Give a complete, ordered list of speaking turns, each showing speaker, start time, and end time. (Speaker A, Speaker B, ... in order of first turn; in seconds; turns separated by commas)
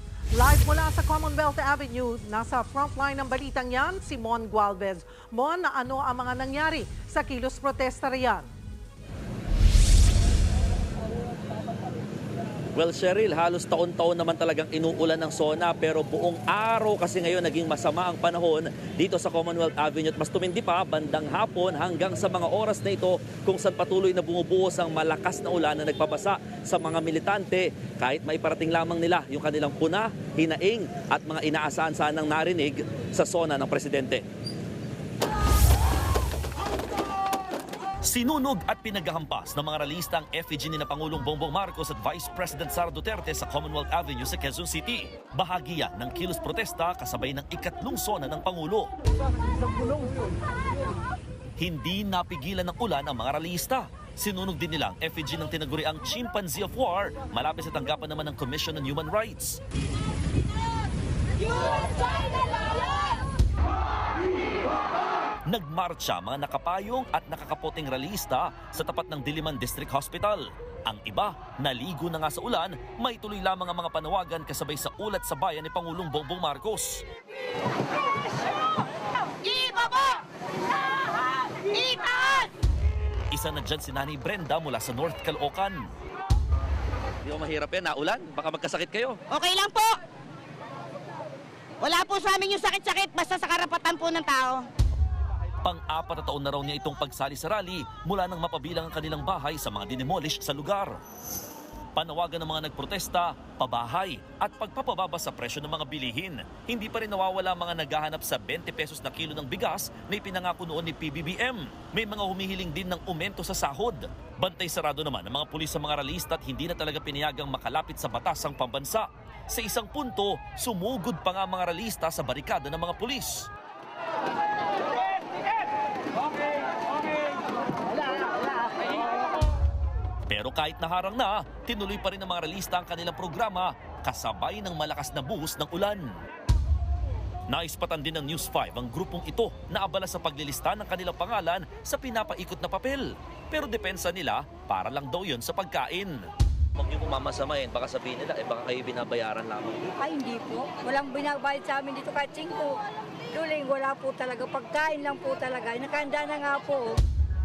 Speaker A: 0.3-8.5, Speaker B: 12.7-34.2, Speaker B: 38.0-48.9, Speaker B: 51.6-59.6, Speaker B: 65.5-77.0, Speaker C: 79.4-80.2, Speaker C: 81.4-82.5, Speaker B: 83.3-85.9, Speaker B: 87.2-89.2, Speaker C: 89.3-90.0, Speaker C: 91.8-94.7, Speaker B: 95.6-101.0, Speaker B: 101.9-123.5, Speaker B: 130.3-136.2, Speaker B: 137.5-146.2, Speaker B: 146.8-149.9, Speaker D: 150.0-157.0